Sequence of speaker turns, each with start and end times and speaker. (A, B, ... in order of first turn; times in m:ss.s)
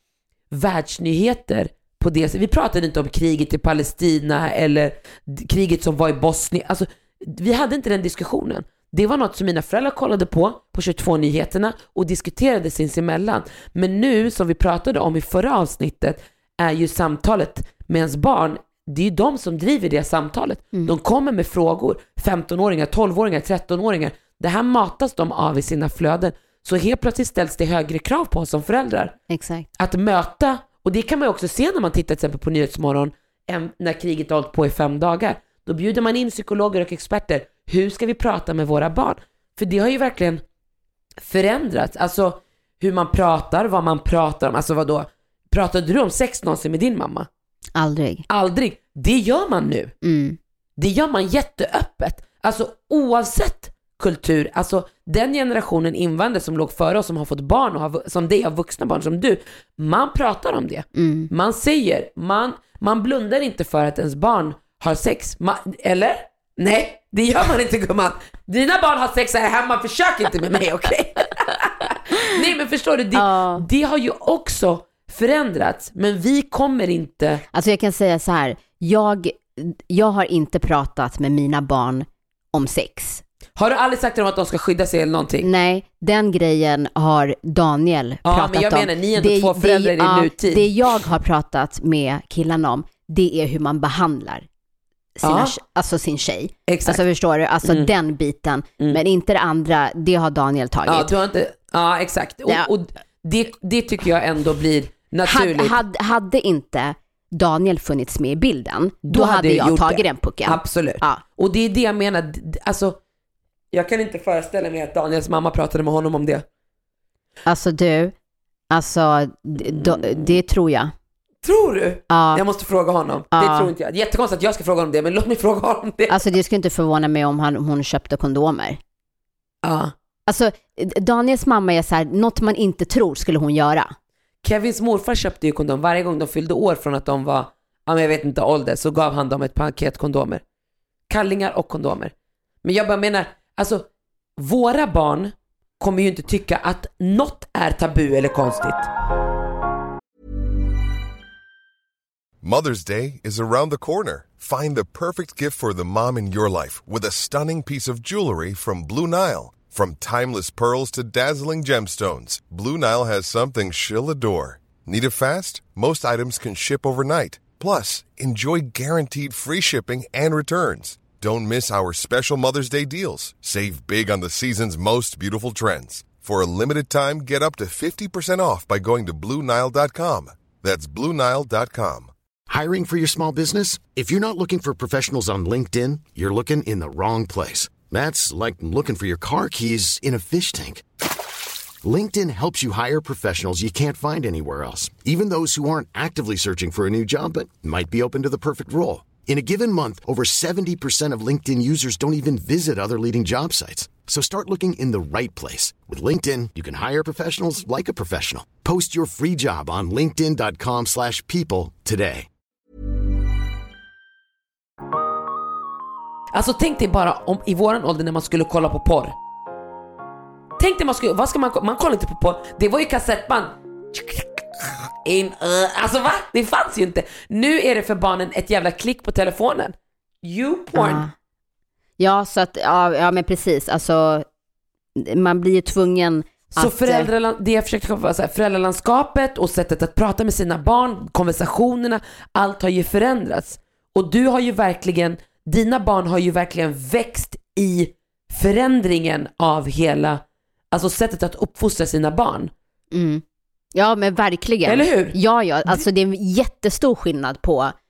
0:00.5-0:29.2 A
0:29.3-0:29.7 B
0:29.8-0:40.4 A
0:41.2-0:47.3 A
0:47.8-0:48.2 B
0:48.3-0:49.9 A
0:50.0-0:50.4 B
0:50.8-1:17.4 A
1:01.0-1:01.3 B
1:13.2-1:13.6 B
1:17.5-1:23.2 B
1:23.6-1:25.5 A
1:25.4-1:34.5 B
1:28.2-1:30.7 A
1:35.2-1:41.1 B
1:35.2-1:35.6 A
1:36.7-1:37.0 A
1:37.6-1:37.9 A
1:40.9-1:45.8 A
1:45.2-1:51.2 B
1:49.1-1:53.0 A
1:53.7-1:56.4 A
1:57.5-1:58.1 B
1:58.7-2:00.9 B
1:59.6-2:00.3 A
2:01.4-2:06.2 A
2:02.1-2:02.4 B
2:03.3-2:03.7 B
2:06.1-2:08.8 B
2:09.6-2:09.9 A
2:10.3-2:13.9 B
2:14.4-2:20.4 A
2:21.1-2:22.1 A
2:22.6-2:28.9 A
2:32.4-3:02.1 C
3:02.5-3:10.8 D
3:11.8-3:32.3 D
3:36.3-3:39.2 A
3:40.6-3:51.0 A
3:50.7-3:51.1 B
3:52.0-3:54.2 B
3:55.0-3:57.1 B
3:56.6-4:12.5 A
4:12.9-4:13.2 B
4:13.8-4:17.8 B
4:14.7-4:15.2 A